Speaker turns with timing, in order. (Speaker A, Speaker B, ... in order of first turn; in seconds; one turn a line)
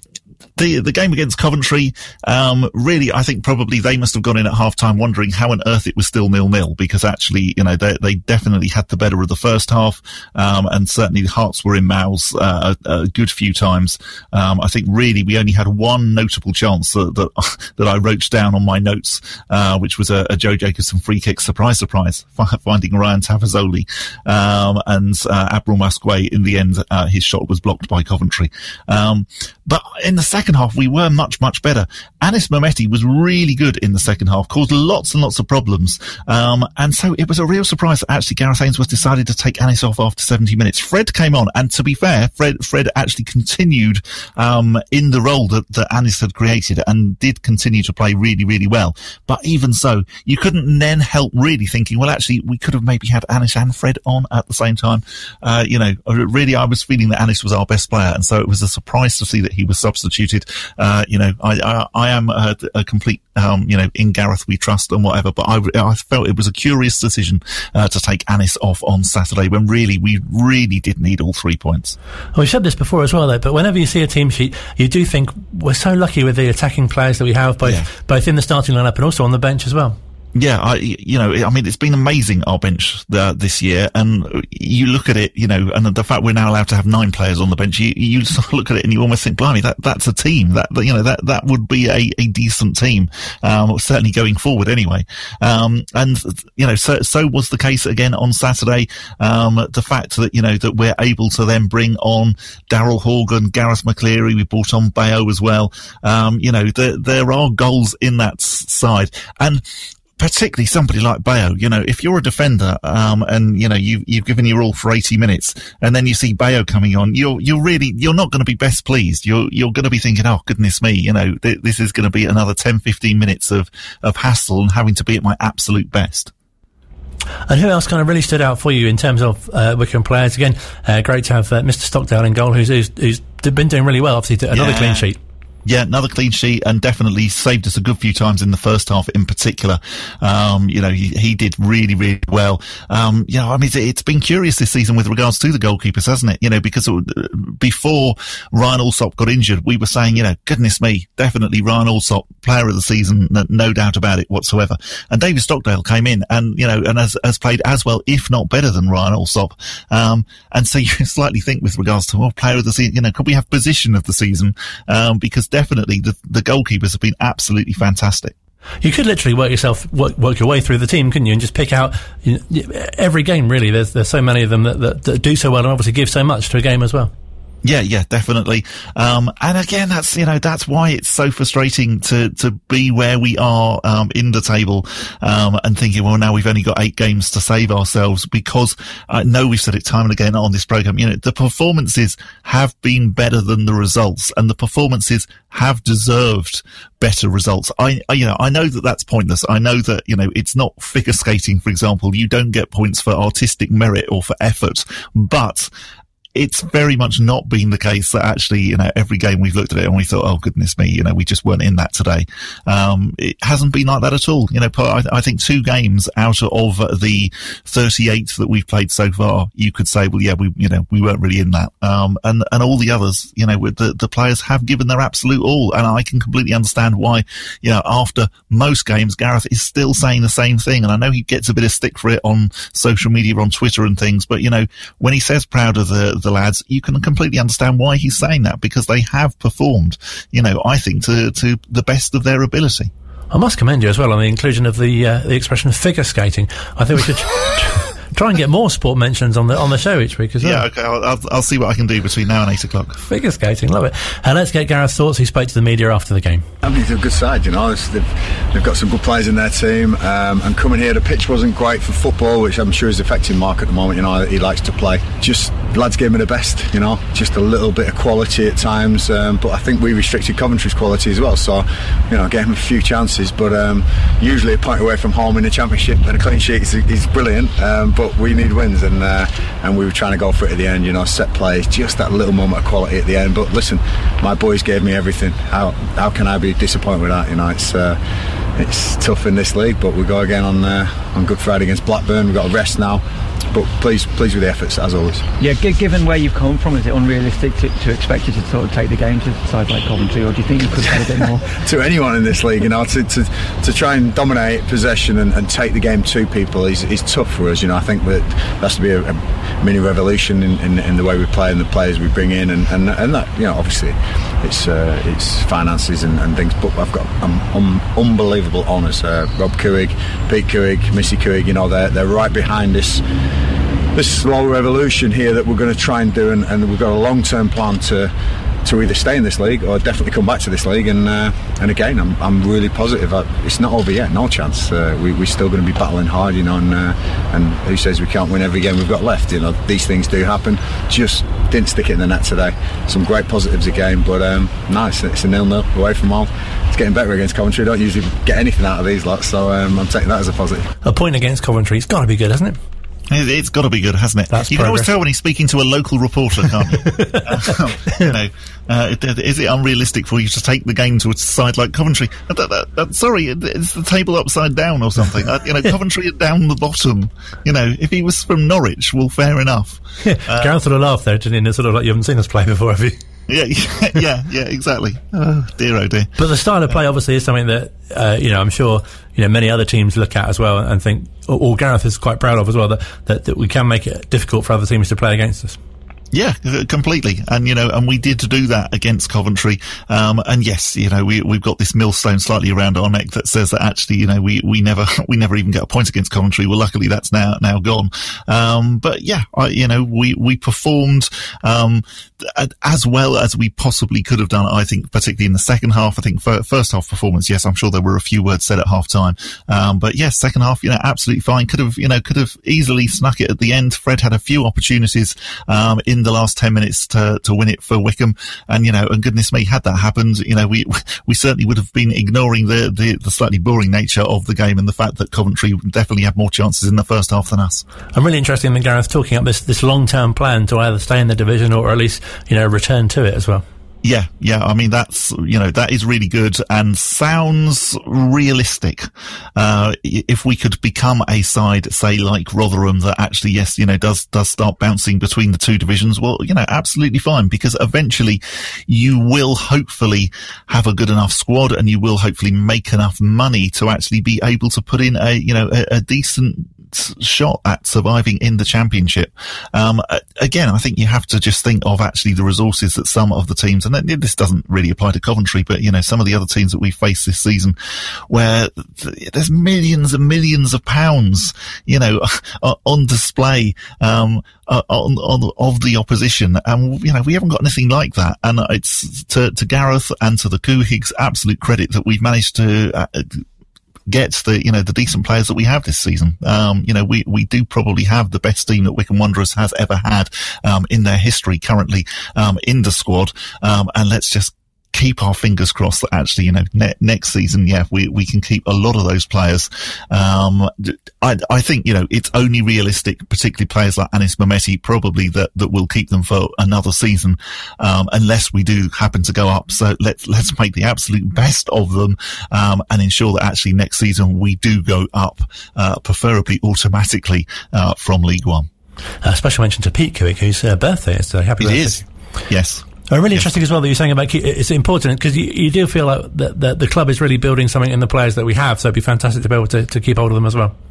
Speaker A: 0.6-72.0
Speaker B: 72.3-80.0
Speaker A: 80.3-109.6
Speaker A: 110.2-126.3
Speaker B: 127.5-135.2
Speaker A: 134.5-135.0
Speaker A: 135.6-168.3
Speaker B: 168.8-177.1
Speaker A: 177.6-205.7
Speaker A: 206.3-242.9
Speaker B: 243.3-250.6
Speaker A: 250.4-253.0
Speaker B: 253.1-256.4
Speaker C: 256.6-288.0
Speaker C: 288.5-295.3
Speaker D: 295.4-301.5
Speaker C: 301.5-323.0
Speaker C: 323.9-328.1
Speaker C: 328.6-350.7
Speaker B: 350.8-352.6
Speaker A: 353.1-370.5
Speaker B: 354.3-354.9
Speaker B: 356.8-358.1
Speaker B: 370.0-373.0
Speaker A: 373.3-376.1
Speaker B: 376.2-385.6
Speaker A: 386.1-427.6
Speaker B: 427.9-433.4
Speaker A: 433.8-467.6
Speaker A: 468.1-483.2
Speaker A: 483.9-518.5
Speaker B: 519.0-521.8
Speaker A: 521.4-523.3
Speaker B: 522.9-530.5